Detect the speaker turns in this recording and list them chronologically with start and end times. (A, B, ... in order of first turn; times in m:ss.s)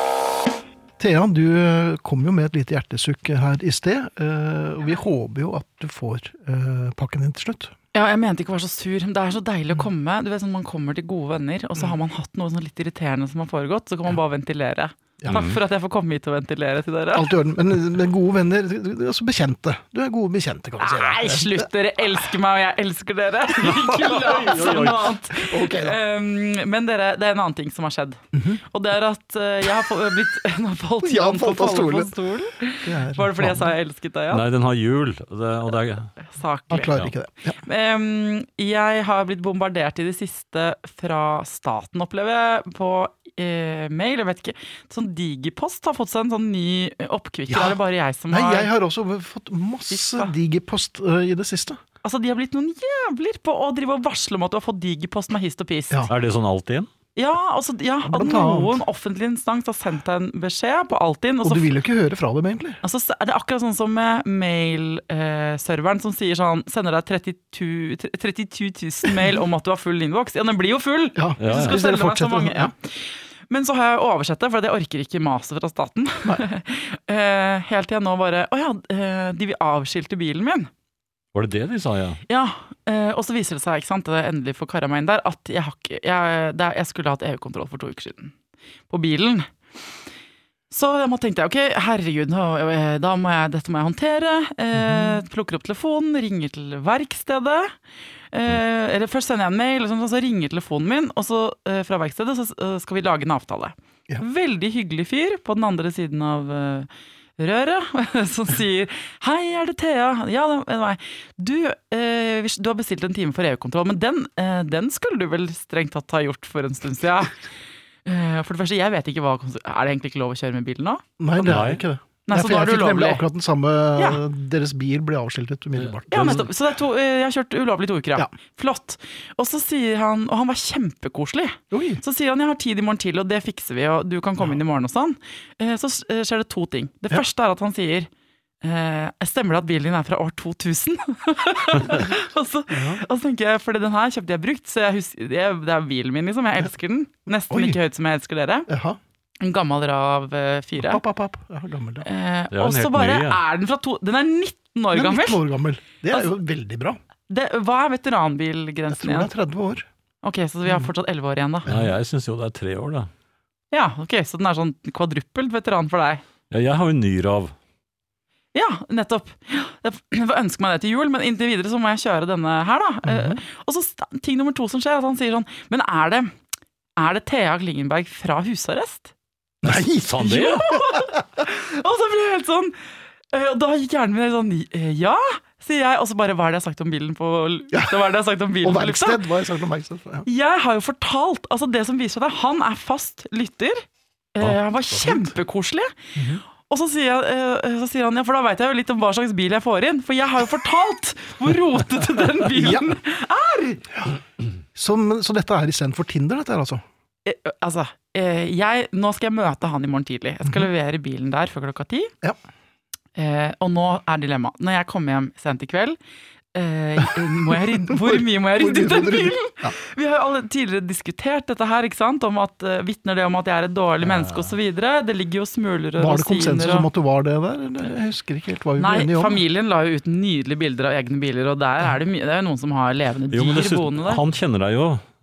0:01.0-0:07.7 A
0:07.9-0:17.3 B
0:15.3-0:15.6 C
0:17.1-0:21.7 A
0:20.8-0:34.4 B
0:23.6-0:25.1 C
0:24.4-0:26.0 A
0:28.3-0:28.6 A
0:31.0-0:32.1 A
0:32.8-0:33.7 A
0:34.3-0:36.1 C
0:36.2-0:37.0 B
0:36.7-0:37.6 A
0:37.6-0:48.7 B
0:47.5-0:47.8 A
0:48.3-0:51.8 A
0:49.9-0:50.3 B
0:52.0-0:56.1 B
0:56.1-0:56.9 C
0:57.2-1:01.7 B
0:58.0-0:58.8 A
1:01.4-1:02.8 A
1:02.8-1:20.7 B
1:11.2-1:12.7 A
1:11.4-1:11.8 C
1:21.3-1:22.2 C
1:22.3-1:28.3 B
1:28.9-1:29.5 B
1:30.7-1:37.8 B
1:34.7-1:35.2 A
1:38.3-1:57.4 B
1:58.0-2:01.5 B
2:01.2-2:06.5 A
2:01.4-2:01.8 C
2:02.3-2:03.2 B
2:04.0-2:04.2 B
2:05.8-2:06.5 C
2:06.1-2:18.1 B
2:11.7-2:12.0 A
2:18.6-2:28.7 B
2:22.7-2:23.0 A
2:27.5-2:27.8 A
2:28.7-2:29.0 A
2:29.4-2:31.0 B
2:30.8-2:32.1 A
2:32.0-2:35.4 B
2:32.5-2:33.4 C
2:34.9-2:37.0 A
2:37.3-2:39.3 B
2:38.9-2:39.9 A
2:40.2-2:41.7 B
2:41.7-2:41.9 A
2:41.7-2:43.1 C
2:43.7-2:46.2 B
2:46.5-2:47.6 C
2:48.5-2:56.3 B
2:53.0-2:53.4 A
2:57.0-2:59.1 B
2:59.6-3:01.1 A
2:59.7-3:00.6 C
3:00.2-3:02.8 B
3:03.3-3:09.2 B
3:08.6-3:10.3 A
3:10.3-3:13.8 B
3:14.4-3:16.0 B
3:14.9-3:15.3 A
3:16.2-3:16.4 A
3:16.6-3:24.0 B
3:22.5-3:23.0 A
3:24.8-3:26.8 A
3:27.2-3:32.1 B
3:33.2-3:36.0 B
3:36.5-3:46.9 B
3:37.5-3:39.8 A
3:46.0-3:49.4 A
3:48.8-3:54.2 B
3:53.3-3:55.0 C